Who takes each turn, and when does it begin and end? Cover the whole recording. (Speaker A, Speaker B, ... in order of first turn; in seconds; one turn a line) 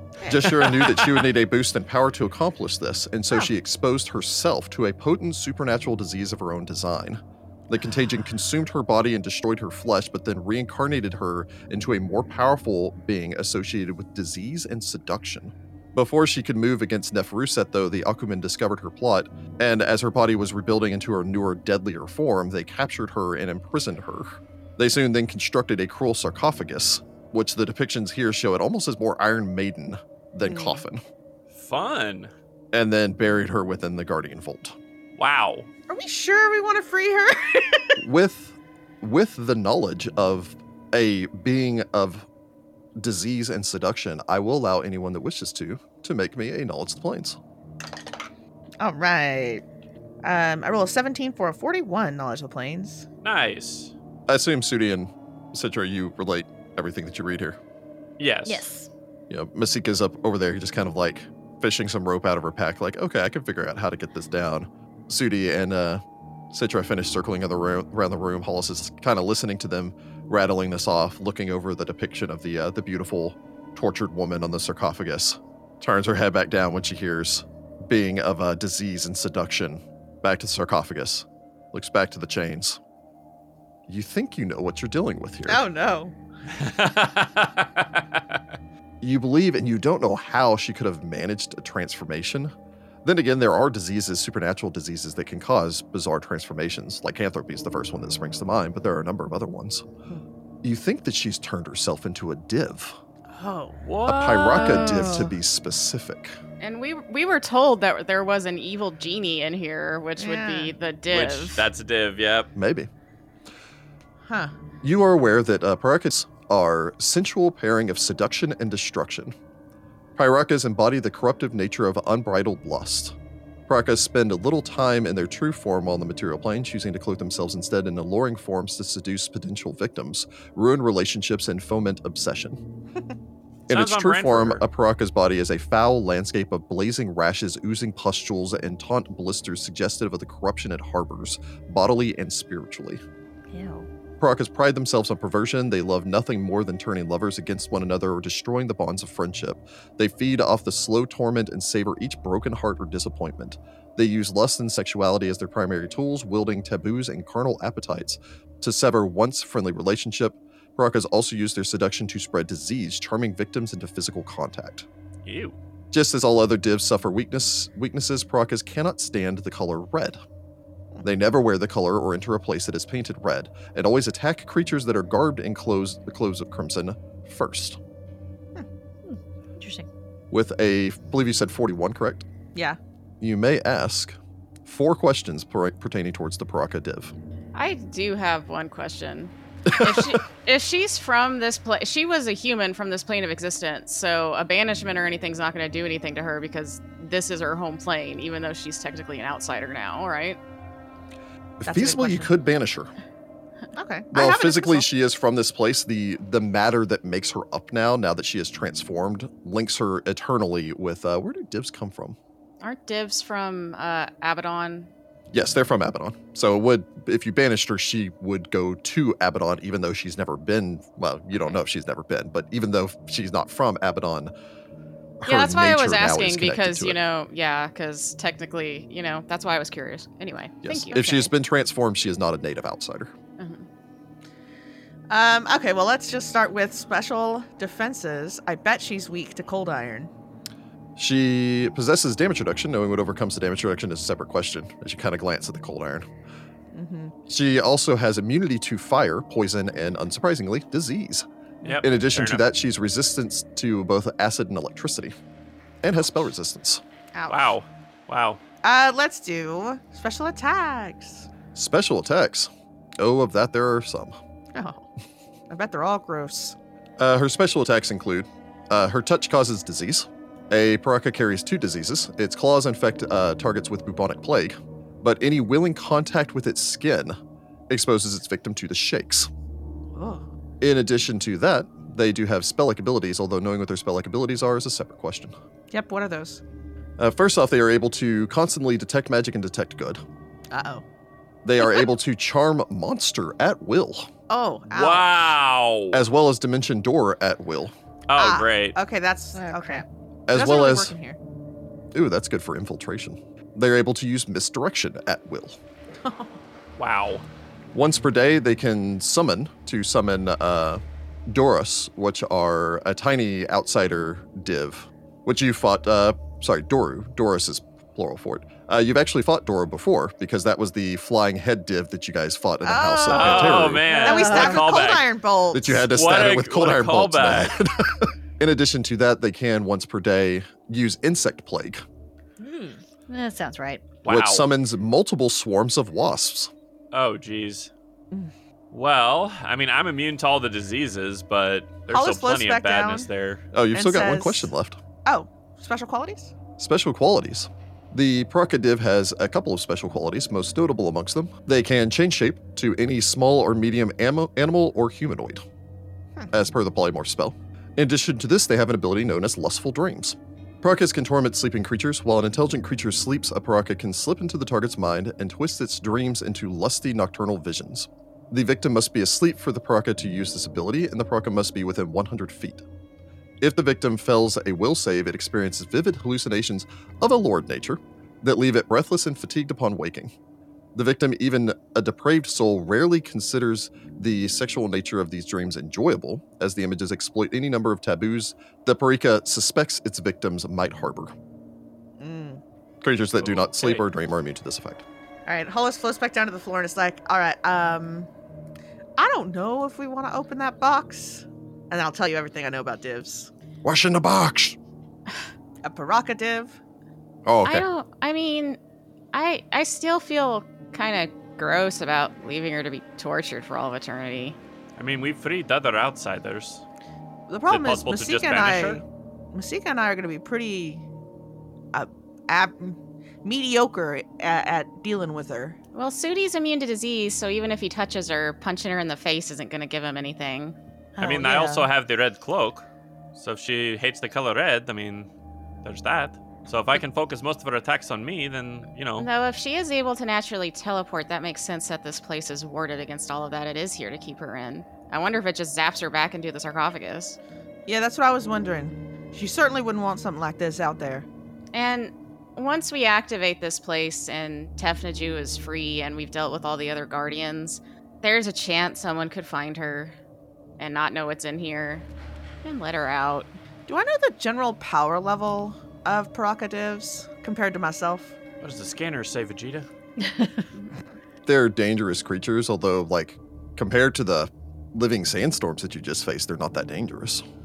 Speaker A: 0.2-0.6
Speaker B: 0.2-31.0
Speaker C: 0.6-1.1
Speaker A: 30.4-30.8
Speaker C: 31.5-32.3
Speaker B: 32.7-34.8
Speaker C: 35.2-35.7
Speaker A: 35.9-38.0
Speaker B: 38.0-42.3
Speaker B: 43.0-47.4
Speaker A: 48.8-49.6
Speaker A: 50.2-53.0
Speaker C: 53.2-53.9
Speaker B: 54.3-57.6
Speaker C: 58.2-58.6
Speaker D: 58.5-58.9
Speaker B: 59.3-82.8
Speaker B: 83.9-85.6
Speaker A: 85.5-86.1
Speaker C: 86.5-88.4
Speaker B: 89.0-92.5
Speaker B: 93.0-99.8
Speaker B: 100.6-103.0
Speaker A: 103.3-103.8
Speaker C: 103.8-105.1
Speaker B: 104.0-106.4
Speaker A: 104.5-105.3
Speaker E: 106.6-111.7
Speaker A: 110.2-110.7
Speaker C: 111.1-112.5
Speaker B: 112.5-112.9
Speaker B: 114.8-119.3
Speaker B: 120.2-123.2
Speaker B: 123.7-132.6
Speaker C: 133.7-134.6
Speaker B: 133.7-143.0
Speaker D: 143.5-143.9
Speaker B: 144.2-164.8
Speaker C: 165.2-165.6
Speaker B: 165.9-170.2
Speaker B: 171.0-177.8
Speaker D: 179.1-179.9
Speaker B: 180.3-182.2
Speaker B: 183.2-187.1
Speaker E: 187.5-200.4
Speaker B: 189.8-190.2
Speaker B: 201.6-202.9
Speaker A: 201.7-202.3
Speaker A: 203.7-204.8
Speaker B: 204.1-212.2
Speaker E: 212.6-214.9
Speaker B: 215.3-224.3
Speaker B: 225.2-227.0
Speaker E: 225.2-231.3
Speaker B: 230.6-233.1
Speaker E: 233.4-233.7
Speaker A: 235.1-240.1
Speaker B: 240.9-246.1
Speaker A: 246.7-247.1
Speaker B: 247.3-251.2
Speaker C: 251.6-252.4
Speaker B: 251.8-255.1
Speaker B: 255.8-256.8
Speaker A: 257.1-257.5
Speaker C: 257.3-258.4
Speaker A: 258.6-261.3
Speaker B: 261.5-264.2
Speaker A: 264.5-264.9
Speaker A: 265.5-266.6
Speaker B: 267.0-277.2
Speaker B: 277.7-279.3
Speaker A: 279.9-280.2
Speaker B: 280.6-285.3
Speaker A: 285.7-286.4
Speaker B: 287.0-290.0
Speaker A: 290.5-290.8
Speaker B: 291.4-294.1
Speaker A: 294.3-295.3
Speaker C: 294.7-296.0
Speaker B: 295.9-297.7
Speaker C: 298.1-298.8
Speaker A: 298.2-301.2
Speaker D: 299.3-299.8
Speaker B: 300.3-300.9
Speaker B: 301.9-305.6
Speaker A: 306.0-306.3
Speaker C: 306.8-307.2
Speaker B: 307.7-323.9
Speaker A: 322.6-325.9
Speaker C: 323.1-325.1
Speaker D: 323.9-324.7
Speaker B: 325.5-331.8
Speaker C: 325.9-327.5
Speaker D: 333.1-333.8
Speaker C: 334.0-334.5
Speaker B: 334.1-336.5
Speaker C: 336.9-337.7
Speaker C: 338.7-343.4
Speaker A: 341.9-343.1
Speaker B: 343.5-344.8
Speaker A: 343.7-344.5
Speaker A: 345.0-346.3
Speaker B: 346.6-355.4
Speaker B: 356.3-372.6
Speaker B: 373.4-380.1
Speaker B: 380.7-391.1
Speaker A: 392.0-392.4
Speaker B: 392.8-394.8
Speaker C: 393.1-393.8
Speaker A: 395.3-398.1
Speaker A: 399.0-403.3
Speaker B: 403.6-404.6
Speaker A: 405.6-406.6
Speaker B: 407.2-407.6
Speaker E: 407.4-408.6
Speaker E: 409.1-414.4
Speaker C: 414.8-416.6
Speaker A: 417.3-420.8
Speaker C: 417.5-418.8
Speaker A: 421.7-425.6
Speaker E: 425.7-430.6
Speaker D: 431.0-431.7
Speaker C: 431.0-435.1
Speaker C: 435.6-439.1
Speaker E: 439.0-447.2
Speaker A: 447.7-451.1
Speaker E: 451.5-459.9
Speaker E: 460.6-461.9
Speaker E: 462.4-463.3
Speaker A: 463.7-468.1
Speaker C: 468.4-469.7
Speaker D: 470.0-470.4
Speaker B: 471.2-477.2